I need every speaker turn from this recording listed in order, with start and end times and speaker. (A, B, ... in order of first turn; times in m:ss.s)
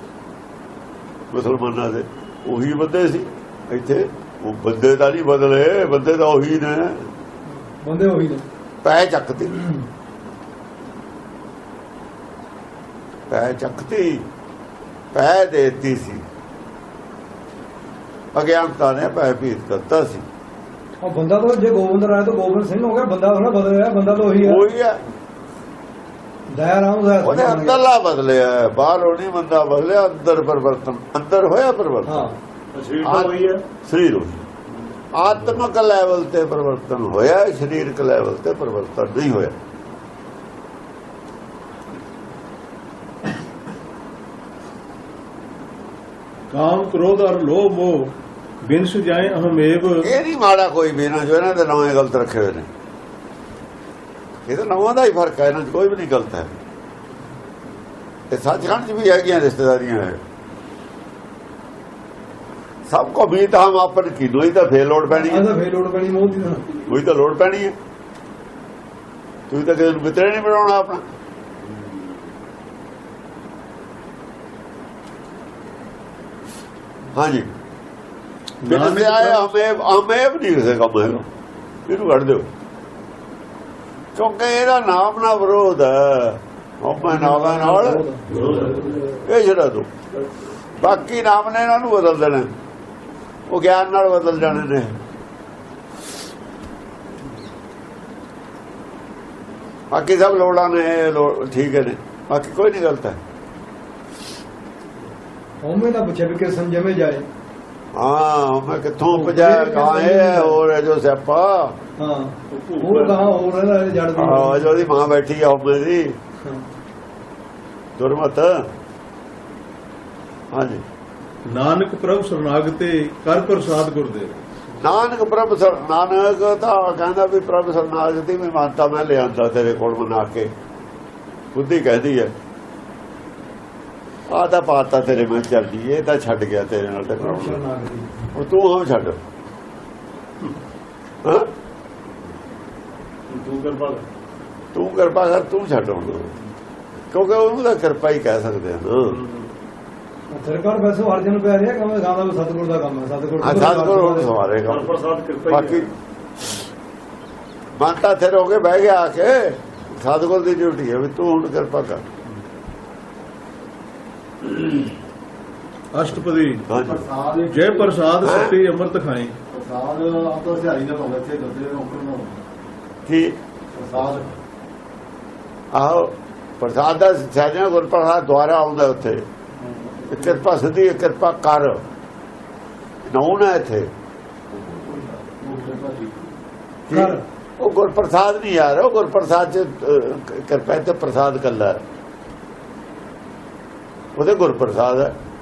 0:01.3-0:07.1 A
0:07.7-0:08.4 B
0:08.8-0:09.7 A
0:13.3-0:14.2 A
0:15.1-0:16.2 A
0:18.3-0:20.2 A
0:21.0-0:24.6 B
0:24.3-0:25.0 A
0:26.5-0:27.8 B
0:27.2-0:32.3 A
0:32.0-0:32.4 B
0:32.7-0:33.6 C
0:33.0-0:34.5 A
0:35.1-0:39.6 A
0:46.5-0:50.1 D
0:50.0-0:52.7 A
0:54.5-0:56.5 A
0:58.3-1:00.2 A
1:02.9-1:05.5 A
1:05.1-1:06.8 B
1:06.9-1:07.7 A
1:09.5-1:11.0 A
1:17.1-1:17.5 A
1:18.6-1:19.5 D
1:18.6-1:21.3 A
1:21.9-1:22.5 A
1:24.1-1:29.9 A
1:27.0-1:28.7 B
1:30.8-1:32.5 A
1:33.5-1:35.0 A
1:39.9-1:43.2 A
1:45.6-1:47.2 B
1:47.9-1:51.8 A
1:49.1-1:50.6 B
1:52.0-1:54.8 B
1:52.5-1:53.3 C
1:54.1-1:56.2 A
1:58.0-1:58.7 A
2:00.5-2:00.8 A
2:01.4-2:04.4 D
2:04.8-2:10.5 A
2:11.5-2:12.3 A
2:14.3-2:17.6 A
2:17.2-2:18.1 B
2:18.3-2:19.2 A
2:21.2-2:21.5 A
2:23.3-2:24.0 C
2:24.7-2:26.3 A
2:27.1-2:29.2 A
2:29.0-2:29.5 C
2:30.3-2:34.3 B
2:33.4-2:34.9 A
2:34.6-2:35.9 C
2:35.5-2:35.9 A
2:37.8-2:42.0 A
2:44.4-2:44.9 A
2:45.9-2:46.7 D
2:46.7-2:47.0 A
2:46.7-2:48.0 E
2:47.5-2:49.3 D
2:48.2-2:48.6 A
2:49.5-2:52.4 E
2:53.0-2:53.4 A
2:53.7-2:54.3 E
2:55.7-2:59.2 A
2:59.6-3:00.4 E
3:00.1-3:01.8 A
3:03.0-3:03.9 A
3:04.5-3:06.3 E
3:06.9-3:11.8 A
3:06.9-3:07.2 B
3:14.2-3:15.1 A